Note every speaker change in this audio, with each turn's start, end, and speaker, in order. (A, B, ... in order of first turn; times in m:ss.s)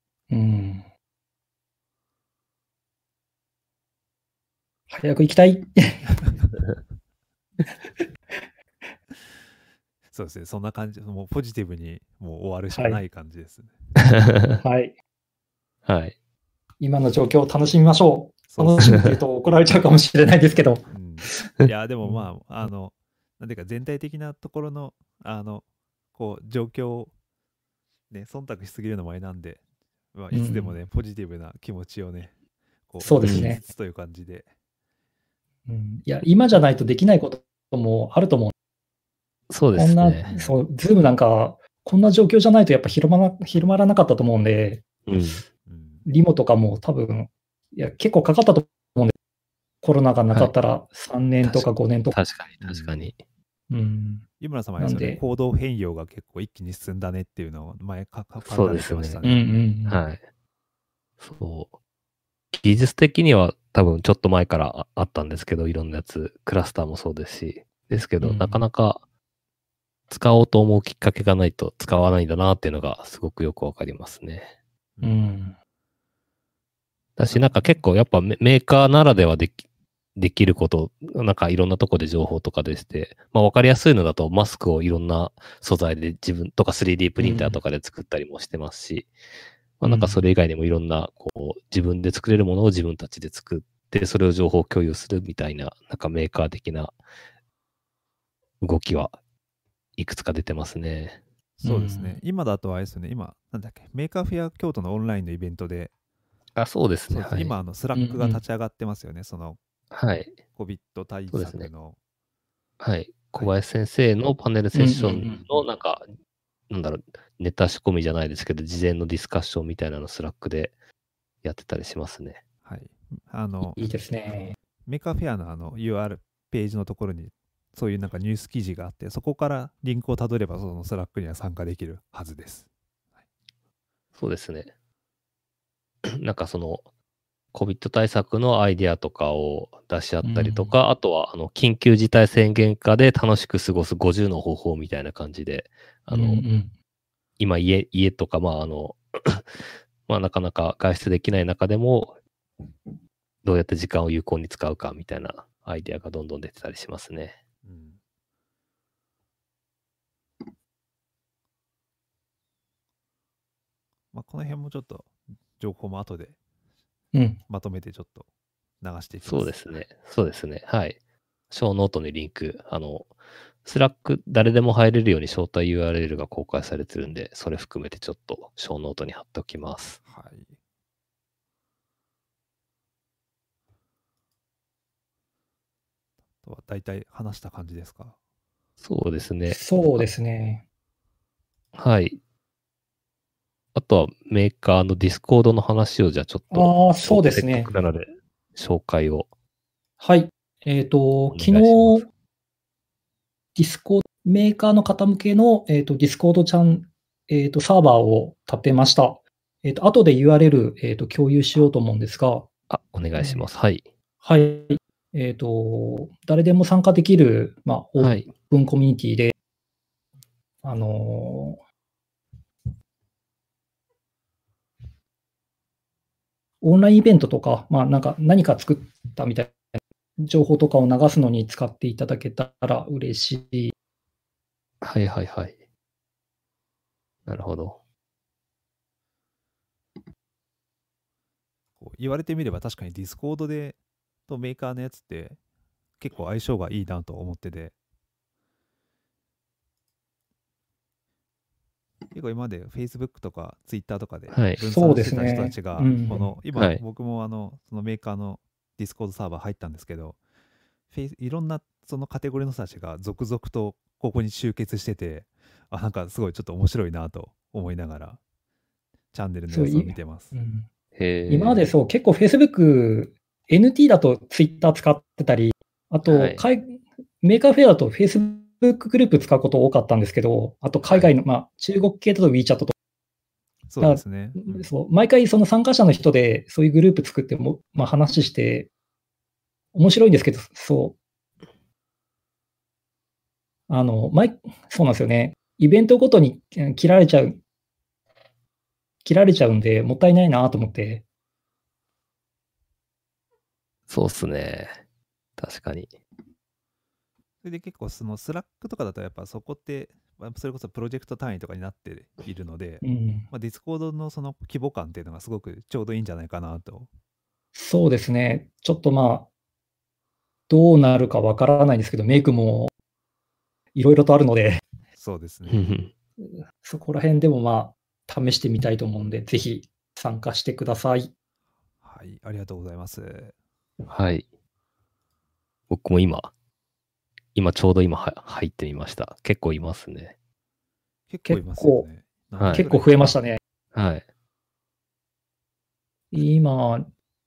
0:00.3-0:00.9 A
0:04.9-0:06.2 A
0:07.8-0:08.4 A
0:10.1-0:13.8 B
0:12.7-0:13.0 A
0:14.0-0:14.6 C
0:14.6-0:15.0 A
0:15.9-0:16.2 C
0:16.8-0:21.5 A
0:18.5-0:19.0 B
0:20.9-0:27.1 B
0:22.0-0:22.7 A
0:28.1-0:29.6 B
0:30.1-0:32.4 B
0:30.3-0:30.8 A
0:32.9-0:34.5 B
0:33.0-0:33.6 A
0:33.2-0:33.6 C
0:35.7-0:38.6 A
0:39.5-0:40.3 C
0:39.8-0:44.8 A
0:40.3-0:40.6 B
0:45.1-0:45.4 C
0:45.7-0:46.1 B
0:46.0-0:49.1 A
0:49.8-0:52.2 A
0:51.4-0:53.2 C
0:52.6-0:53.1 B
0:53.7-0:54.3 A
0:54.4-0:59.6 B
0:54.8-0:55.2 A
0:58.4-0:59.2 C
0:59.2-1:00.0 A
0:59.9-1:00.2 C
1:01.2-1:01.7 C
1:02.5-1:09.0 C
1:08.2-1:08.7 A
1:10.1-1:14.5 C
1:15.0-1:15.6 A
1:17.2-1:19.6 C
1:20.2-1:29.1 C
1:27.2-1:27.6 A
1:29.8-1:37.0 C
1:29.8-1:30.3 A
1:38.6-1:39.2 C
1:40.0-1:41.2 C
1:41.6-1:45.9 B
1:41.6-1:42.2 A
1:46.6-1:47.6 C
1:47.1-1:49.6 B
1:47.9-1:48.4 A
1:49.9-1:50.4 C
1:50.6-1:52.0 B
1:51.3-1:51.7 C
1:52.8-1:56.0 C
1:54.7-1:55.5 A
1:56.7-2:00.8 C
2:01.4-2:02.4 C
2:02.6-2:03.8 B
2:03.8-2:04.6 A
2:04.9-2:12.7 B
2:14.2-2:14.7 C
2:16.0-2:16.8 C
2:17.5-2:26.5 C
2:20.2-2:20.8 A
2:26.1-2:26.7 A
2:27.4-2:32.2 C
2:33.4-2:37.4 C
2:37.6-2:38.0 B
2:44.1-2:46.4 B
2:47.1-2:47.4 A
2:47.5-2:48.3 B
2:48.8-2:49.7 B
2:49.2-2:51.0 C
2:51.5-2:53.1 C
2:53.6-3:00.0 C
3:00.1-3:00.6 B
3:06.4-3:08.2 B
3:08.8-3:10.1 C
3:09.5-3:10.6 A
3:11.8-3:12.2 C
3:13.8-3:19.3 C
3:16.5-3:17.7 A
3:20.0-3:22.1 A
3:21.4-3:22.1 C
3:23.6-3:32.5 A
3:32.7-3:33.9 C
3:33.2-3:33.5 A
3:34.2-3:39.4 A
3:38.0-3:38.3 C
3:40.6-3:41.6 A
3:46.6-3:53.8 A
3:54.8-3:55.6 C
3:57.3-3:57.8 C
4:01.8-4:05.4 B
4:06.0-4:07.8 B
4:12.1-4:20.2 B
4:14.3-4:14.6 C
4:14.7-4:16.3 A
4:16.5-4:16.8 C
4:20.9-4:28.2 B
4:29.1-4:30.3 B
4:29.5-4:30.7 A
4:31.0-4:31.7 C
4:31.3-4:42.7 A
4:36.1-4:36.4 C
4:43.7-4:44.7 B
4:43.8-4:48.7 A
4:49.7-4:51.0 A
4:53.7-4:57.4 A
4:59.0-5:01.0 A
5:03.9-5:04.8 C
5:05.4-5:05.9 C
5:07.4-5:16.9 B
5:12.8-5:13.3 A
5:17.6-5:19.3 A
5:20.5-5:22.7 A
5:23.8-5:24.6 A
5:25.0-5:25.7 B
5:25.5-5:25.9 C
5:26.2-5:31.1 A
5:31.8-5:33.4 B
5:33.9-5:34.3 C
5:35.7-5:36.3 C
5:37.4-5:40.1 C
5:41.1-5:43.1 B
5:41.3-5:41.9 A
5:42.4-5:42.6 C
5:42.5-5:43.4 A
5:43.7-5:44.0 C
5:46.1-5:46.9 A